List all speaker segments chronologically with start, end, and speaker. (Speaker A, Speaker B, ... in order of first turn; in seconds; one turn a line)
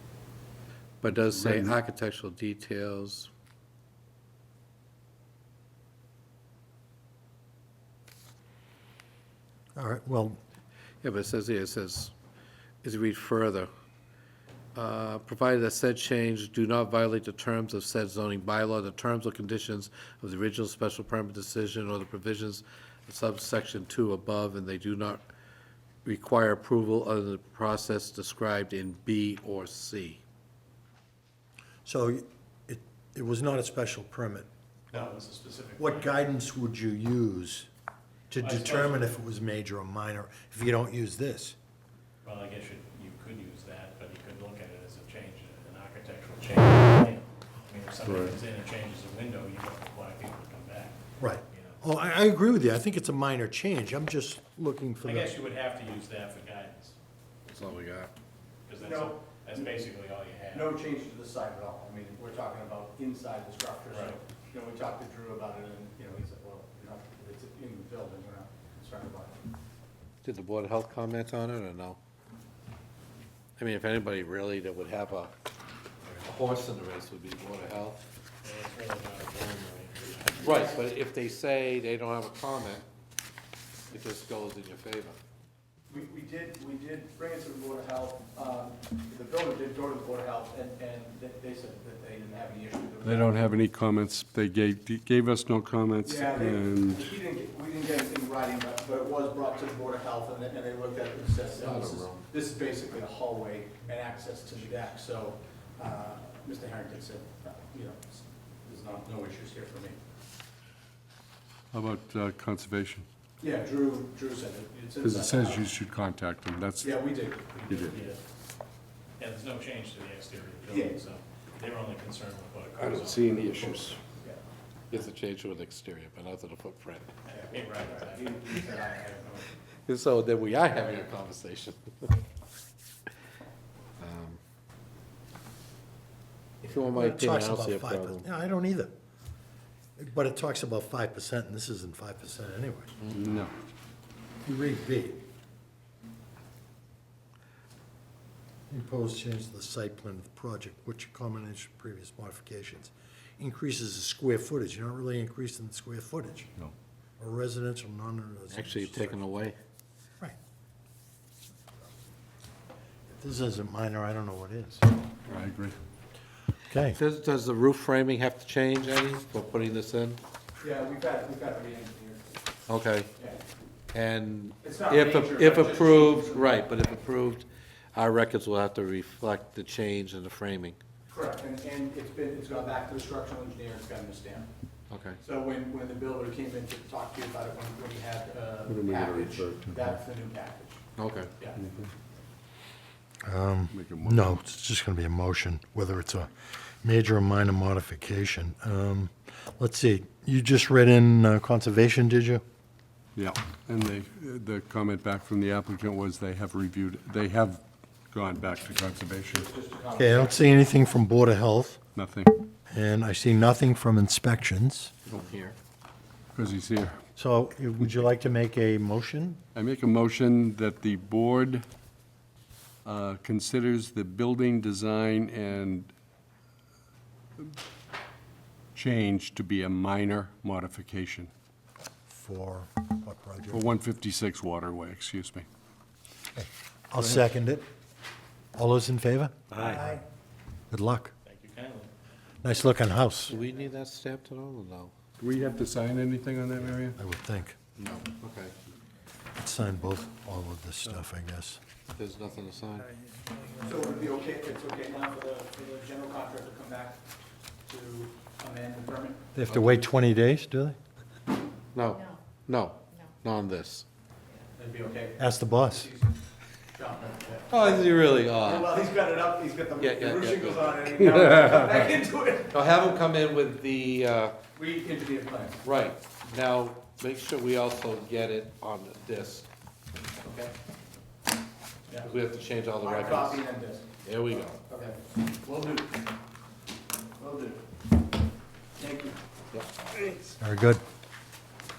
Speaker A: 1.0-3.3
Speaker B: 1.0-1.8
Speaker C: 9.8-10.4
Speaker A: 11.0-12.1
Speaker A: 12.8-13.7
Speaker A: 14.7-25.2
Speaker A: 26.1-30.2
Speaker C: 31.8-35.1
Speaker D: 34.9-36.1
Speaker C: 35.8-37.7
Speaker C: 38.3-41.5
Speaker D: 38.4-39.1
Speaker D: 42.2-51.0
Speaker B: 48.0-48.4
Speaker C: 51.2-55.3
Speaker D: 51.5-51.8
Speaker D: 55.0-57.0
Speaker A: 57.5-58.1
Speaker D: 58.7-60.8
Speaker E: 58.8-59.8
Speaker E: 60.5-69.4
Speaker A: 70.2-72.0
Speaker A: 73.6-75.3
Speaker A: 76.1-78.0
Speaker D: 78.4-80.8
Speaker A: 80.4-82.8
Speaker E: 80.5-80.8
Speaker A: 83.9-85.2
Speaker E: 85.9-93.6
Speaker B: 93.0-97.1
Speaker E: 96.0-110.0
Speaker A: 101.6-102.2
Speaker B: 111.7-113.1
Speaker E: 113.4-115.7
Speaker B: 115.0-117.0
Speaker E: 116.8-118.2
Speaker D: 117.5-118.2
Speaker B: 117.7-117.9
Speaker D: 119.2-123.7
Speaker E: 120.7-121.0
Speaker B: 122.8-124.0
Speaker E: 123.5-125.0
Speaker A: 124.9-127.1
Speaker E: 127.2-129.5
Speaker D: 127.5-128.5
Speaker A: 129.8-132.2
Speaker A: 134.0-134.4
Speaker A: 136.6-138.2
Speaker C: 136.8-138.9
Speaker C: 140.0-142.9
Speaker B: 143.1-143.5
Speaker C: 144.4-145.2
Speaker C: 148.7-156.5
Speaker C: 157.2-159.2
Speaker A: 158.5-159.6
Speaker C: 163.1-164.9
Speaker B: 165.3-165.8
Speaker C: 166.7-167.0
Speaker A: 166.9-170.2
Speaker E: 170.6-172.4
Speaker A: 172.7-173.1
Speaker A: 173.9-180.8
Speaker E: 174.6-176.6
Speaker E: 181.1-184.5
Speaker A: 184.9-185.2
Speaker E: 185.2-190.8
Speaker B: 188.7-190.0
Speaker A: 191.0-191.3
Speaker B: 191.6-191.9
Speaker C: 193.2-202.4
Speaker B: 193.7-194.4
Speaker B: 203.2-209.5
Speaker E: 209.3-210.6
Speaker C: 209.9-211.8
Speaker B: 211.9-212.4
Speaker C: 212.7-214.9
Speaker A: 215.1-215.6
Speaker B: 216.3-217.0
Speaker C: 217.2-219.4
Speaker B: 219.5-221.6
Speaker B: 222.8-225.9
Speaker B: 228.7-231.3
Speaker C: 232.1-233.7
Speaker B: 233.5-235.5
Speaker C: 236.3-237.7
Speaker C: 238.6-240.0
Speaker A: 239.5-239.8
Speaker C: 240.7-241.1
Speaker D: 241.2-241.9
Speaker C: 242.4-243.4
Speaker A: 243.3-244.9
Speaker B: 245.2-247.0
Speaker C: 247.0-247.6
Speaker A: 247.8-248.5
Speaker C: 249.4-251.6
Speaker A: 251.9-252.9
Speaker E: 253.6-257.0
Speaker E: 257.6-259.2
Speaker C: 259.4-260.8
Speaker A: 259.5-259.8
Speaker A: 261.7-263.9
Speaker E: 264.6-266.2
Speaker C: 265.2-265.9
Speaker E: 266.7-272.6
Speaker A: 267.5-268.8
Speaker A: 269.8-271.1
Speaker A: 272.5-274.4
Speaker E: 274.6-275.6
Speaker A: 275.6-279.5
Speaker A: 280.2-280.5
Speaker E: 281.9-282.1
Speaker A: 282.0-283.4
Speaker E: 282.8-286.0
Speaker A: 284.0-284.6
Speaker E: 287.2-287.6
Speaker E: 288.8-289.2
Speaker C: 290.4-290.8